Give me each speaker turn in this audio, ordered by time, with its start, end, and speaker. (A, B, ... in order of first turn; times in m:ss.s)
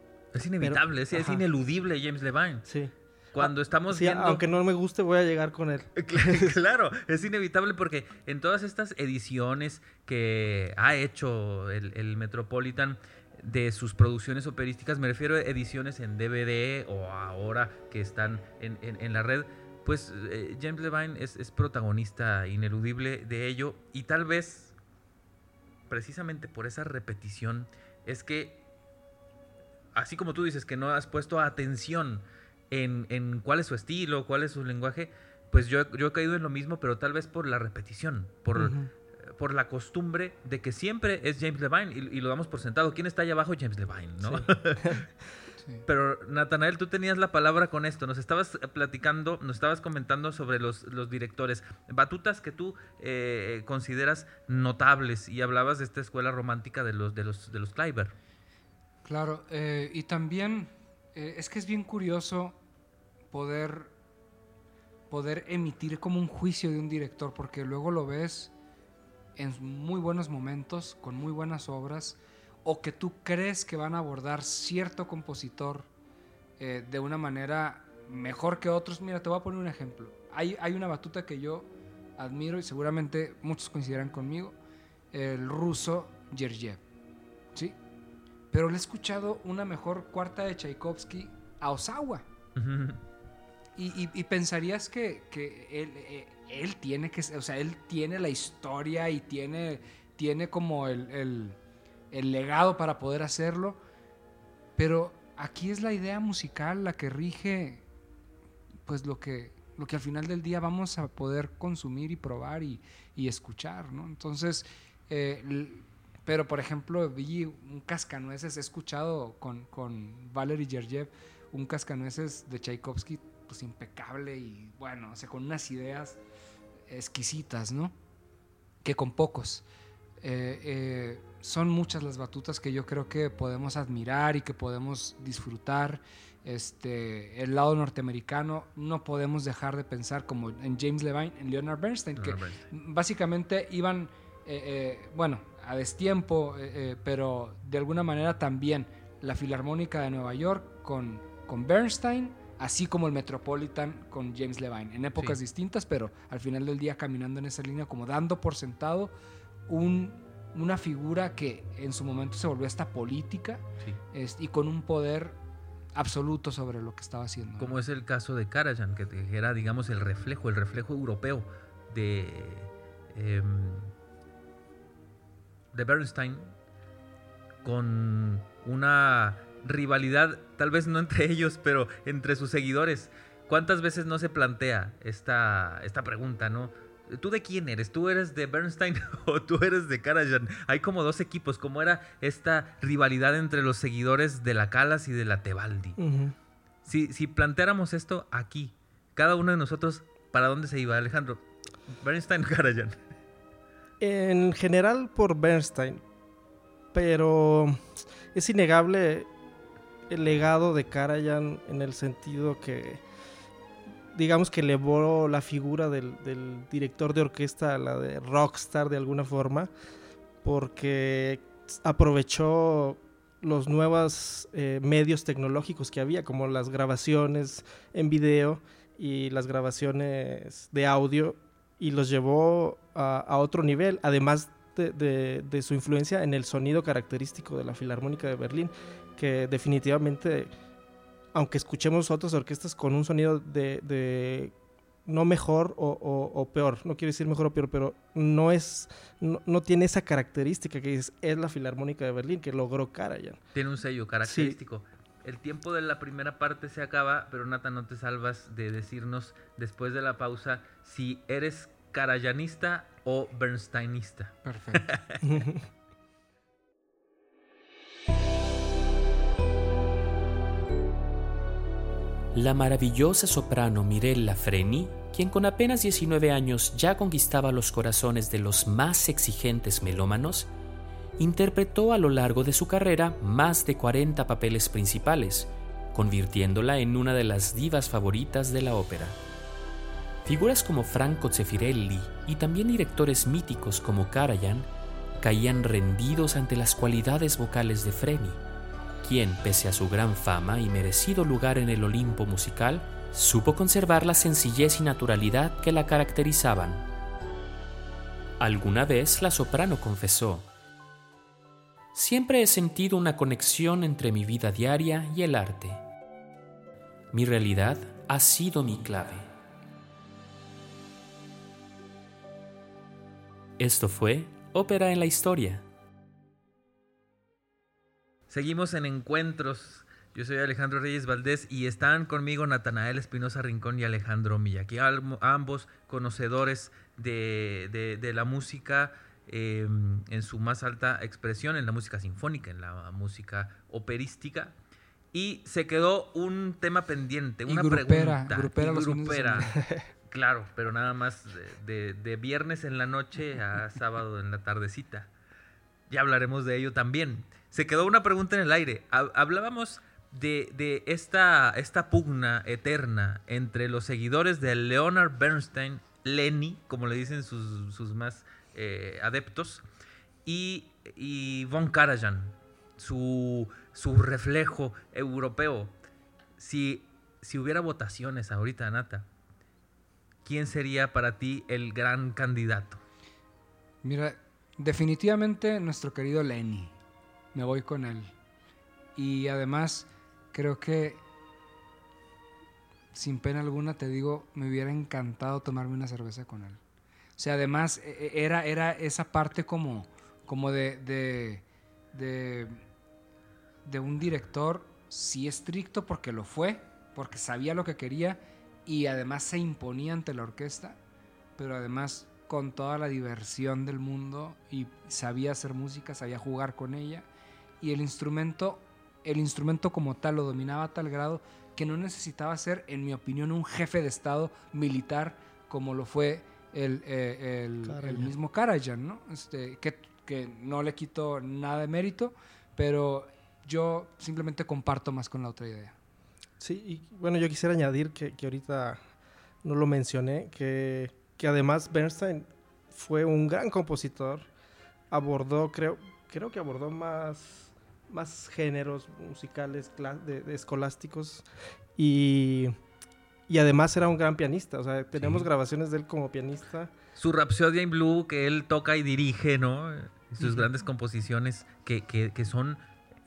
0:00.3-0:02.7 A
0:00.6-0:01.4 B
0:02.7-0:06.5 B
0:03.3-0:04.4 A
0:06.0-0:24.8 A
0:25.9-0:28.6 A
0:30.0-0:45.0 A
0:38.6-0:38.9 B
0:44.2-0:45.0 B
0:45.9-0:58.2 A
0:59.0-1:02.6 C
1:03.3-1:03.9 C
1:05.1-1:08.5 C
1:09.4-1:15.9 C
1:16.6-1:24.6 C
1:25.1-1:26.8 C
1:28.5-1:32.3 C
1:32.6-1:33.0 A
1:33.8-1:41.6 C
1:42.1-1:43.8 C
1:44.8-1:47.8 C
1:48.9-2:06.2 C
2:06.9-2:08.0 C
2:08.8-2:09.6 C
2:10.2-2:39.1 C
2:22.2-2:22.7 A
2:39.7-2:45.4 C
2:46.0-2:47.8 C
2:47.6-2:53.9 A
2:55.7-2:56.5 A
2:57.6-3:16.0 A
3:16.0-3:16.4 B
3:16.9-3:21.4 A
3:22.0-3:23.0 A
3:24.0-3:26.0 B
3:26.9-3:27.8 B
3:28.3-3:29.3 B
3:30.1-3:33.0 B
3:34.1-3:39.7 B
3:40.4-4:00.5 B
4:01.3-4:04.5 B
4:05.1-4:13.4 B
4:13.6-4:25.4 A
4:14.2-4:14.6 B
4:24.4-4:24.9 C
4:25.3-4:25.6 B
4:32.3-4:40.5 D
4:41.2-4:49.2 D
4:50.2-4:58.4 D
4:59.0-5:06.9 D
5:08.4-5:10.5 D
5:11.9-5:15.8 D
5:17.1-5:19.3 D
5:23.6-5:25.7 D
5:28.3-5:44.5 A
5:45.1-5:49.6 A
5:47.5-5:49.6 C
5:50.1-5:55.1 A
5:55.9-6:09.6 A
6:10.2-6:15.7 A
6:16.4-6:19.1 A
6:20.2-6:22.8 A
6:23.8-6:26.8 C
6:27.3-6:28.1 C
6:29.0-6:31.0 C
6:32.9-6:36.6 C
6:37.2-6:42.6 C
6:43.6-6:50.8 C
6:51.4-6:57.1 C
6:57.6-7:15.8 C
7:07.6-7:08.1 B
7:16.4-7:18.8 B
7:19.4-7:24.3 B
7:24.9-7:31.2 B
7:31.8-7:32.5 B
7:33.3-7:36.7 B
7:35.0-7:35.3 A
7:37.0-7:42.6 A